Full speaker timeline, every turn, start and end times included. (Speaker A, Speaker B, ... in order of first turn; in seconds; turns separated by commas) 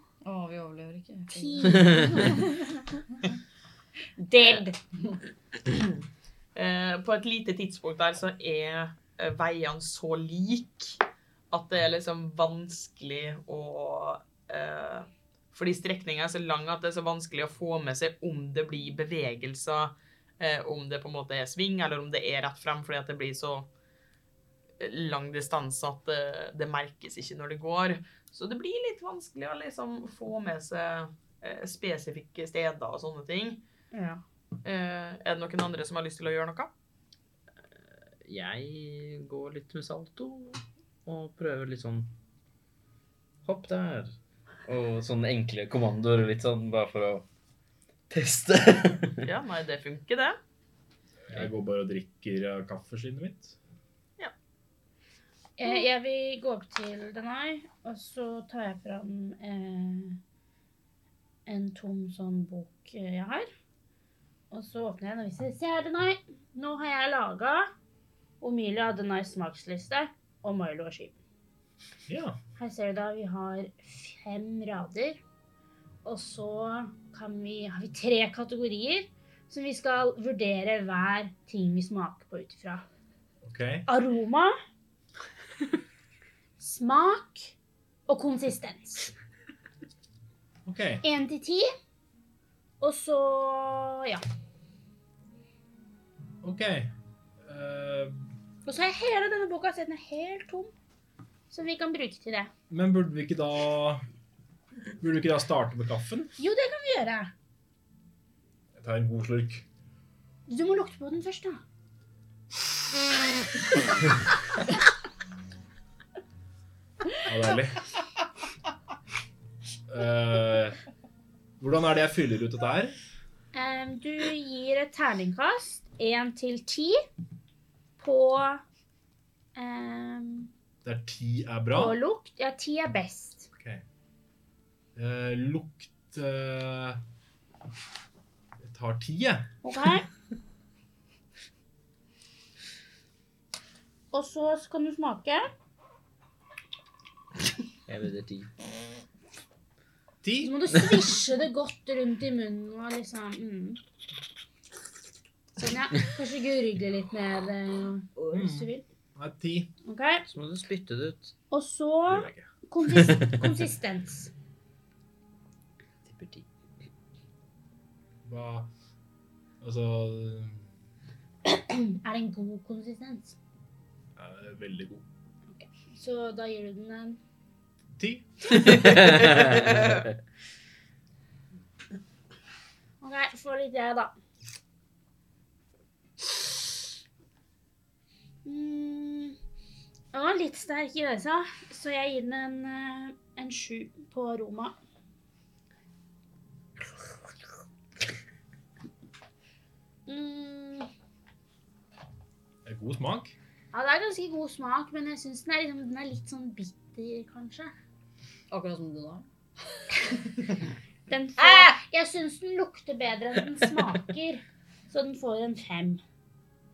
Speaker A: 0.2-2.4, Speaker B: 1.3-2.6, Speaker C: 1.8-2.2, Speaker B: 4.2-4.8, Speaker D: 5.7-5.9, Speaker D: 6.5-23.7, Speaker D: 24.8-33.6, Speaker B: 33.9-34.2, Speaker D: 34.6-36.7, Speaker C: 38.2-42.1, Speaker C: 43.4-47.2, Speaker C: 48.1-49.3, Speaker D: 49.2-50.4, Speaker E: 51.2-53.6, Speaker B: 55.6-60.2, Speaker B: 61.5-63.5, Speaker B: 64.5-67.7, Speaker B: 68.4-71.2, Speaker E: 72.1-72.4, Speaker B: 72.6-75.2, Speaker B: 76.0-82.8, Speaker E: 83.4-83.8, Speaker B: 83.8-84.5, Speaker B: 86.6-87.5, Speaker B: 88.1-89.1, Speaker E: 90.7-91.0, Speaker B: 91.0-91.7, Speaker B: 92.8-94.2, Speaker E: 96.4-96.9, Speaker E: 97.5-98.2, Speaker B: 98.7-100.7, Speaker B: 101.5-102.5, Speaker E: 102.7-104.0, Speaker E: 105.0-106.3, Speaker B: 106.4-107.3, Speaker E: 108.8-109.6, Speaker B: 110.5-111.6, Speaker E: 117.2-117.9, Speaker E: 119.9-120.8, Speaker E: 121.6-123.0, Speaker B: 123.5-127.0, Speaker B: 128.0-128.6, Speaker B: 129.5-130.5, Speaker E: 130.8-132.0, Speaker B: 131.7-133.5, Speaker E: 133.6-133.8, Speaker E: 134.9-137.0, Speaker E: 138.6-139.5, Speaker B: 139.6-140.1, Speaker B: 144.1-145.5, Speaker C: 147.9-148.5, Speaker E: 150.2-151.1, Speaker B: 150.4-153.8, Speaker B: 155.6-158.8, Speaker E: 158.3-159.7, Speaker B: 159.8-160.3, Speaker C: 160.3-161.3, Speaker B: 161.5-164.3, Speaker E: 162.1-162.5, Speaker C: 162.9-163.2, Speaker C: 166.0-166.5, Speaker E: 168.2-168.7, Speaker E: 169.6-170.6, Speaker B: 171.5-173.4, Speaker E: 174.2-175.0, Speaker B: 175.5-177.2, Speaker E: 178.0-179.1, Speaker C: 178.6-180.2, Speaker B: 183.0-184.1, Speaker B: 188.4-189.3, Speaker B: 190.1-194.8, Speaker B: 200.1-200.9, Speaker E: 202.6-203.3, Speaker B: 203.7-207.7, Speaker A: 208.5-209.3, Speaker B: 211.1-216.0